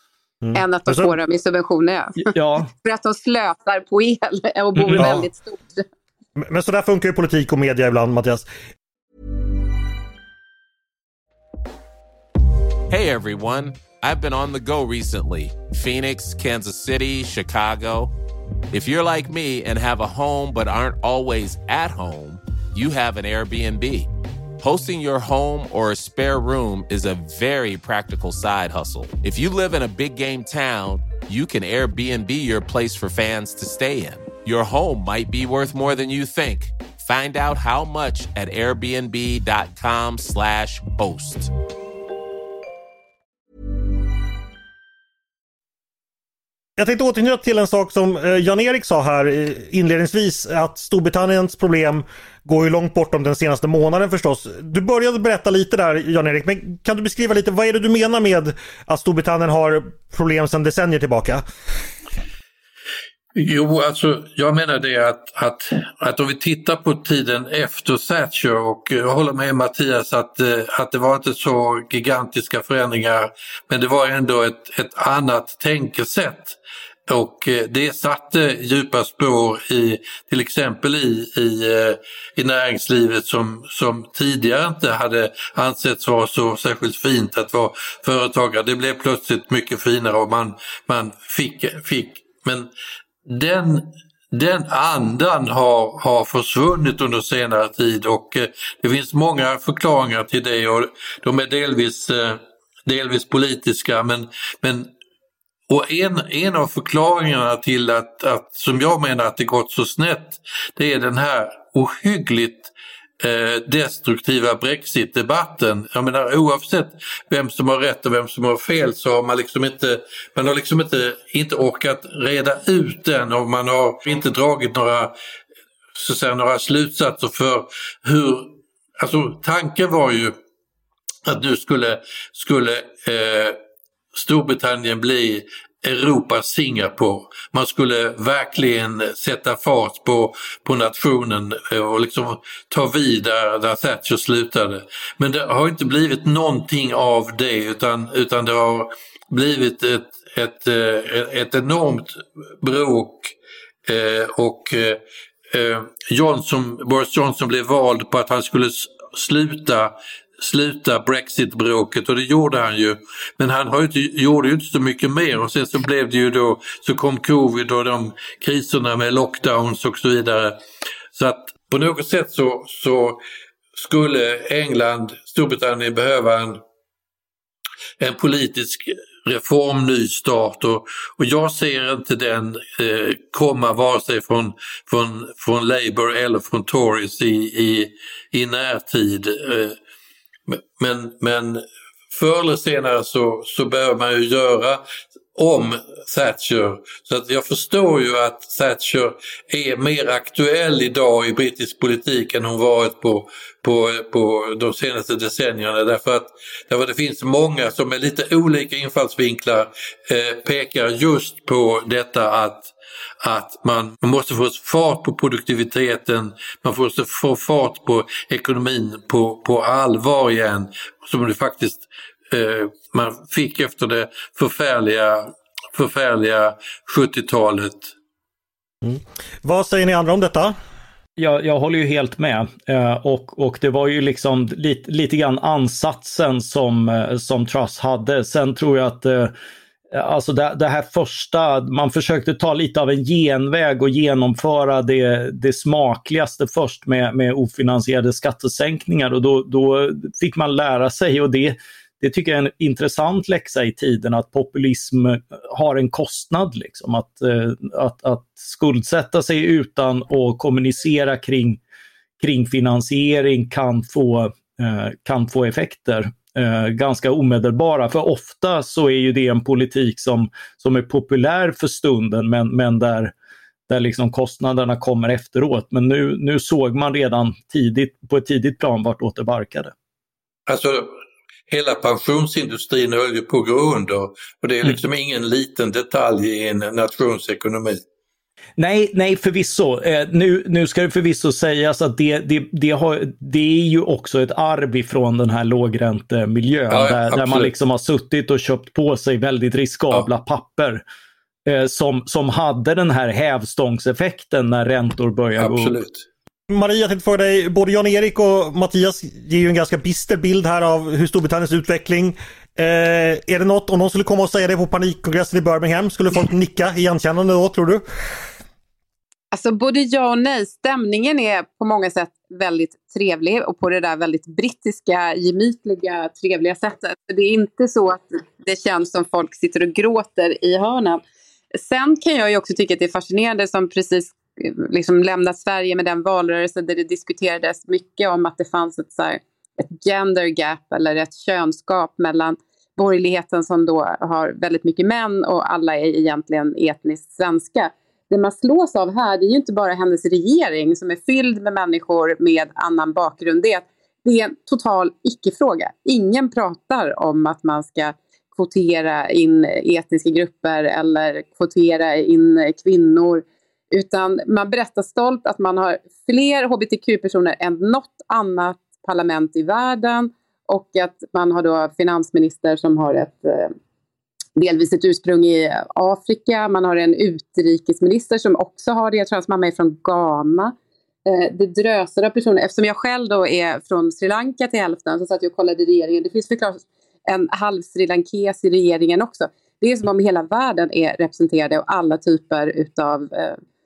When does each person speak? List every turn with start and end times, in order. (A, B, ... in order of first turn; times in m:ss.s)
0:00.4-0:01.2 A
0:00.5-0:05.9 B
0:02.2-0:02.7 C
0:04.8-0:05.1 C
0:05.0-0:05.3 A
0:06.4-0:08.4 A
0:12.9-0:18.1 D
0:18.7-0:41.5 D
0:46.8-1:01.4 A
1:03.4-1:16.6 E
1:17.1-1:32.7 E
1:33.3-1:44.9 E
1:45.7-2:05.1 E
2:06.0-2:10.4 E
2:11.3-2:13.6 E
2:14.1-2:33.3 E
2:33.9-2:35.0 E
2:35.5-2:50.6 E
2:51.2-2:53.2 E
2:53.8-2:56.6 E
2:58.0-3:09.8 E
3:10.5-3:47.9 E
3:48.8-3:50.6 A
3:51.2-3:59.3 C
3:59.9-4:21.6 C
4:22.2-4:33.1 C
4:33.7-4:39.7 C
4:40.5-4:40.9 E
4:41.5-4:47.8 E
4:48.6-5:00.8 C
4:56.7-4:57.5 E
5:01.5-5:05.8 C
5:05.4-5:06.1 E
5:06.5-5:17.8 A
5:19.3-5:31.0 B
5:31.6-6:13.5 B
6:14.4-6:20.6 B
6:21.1-6:33.4 B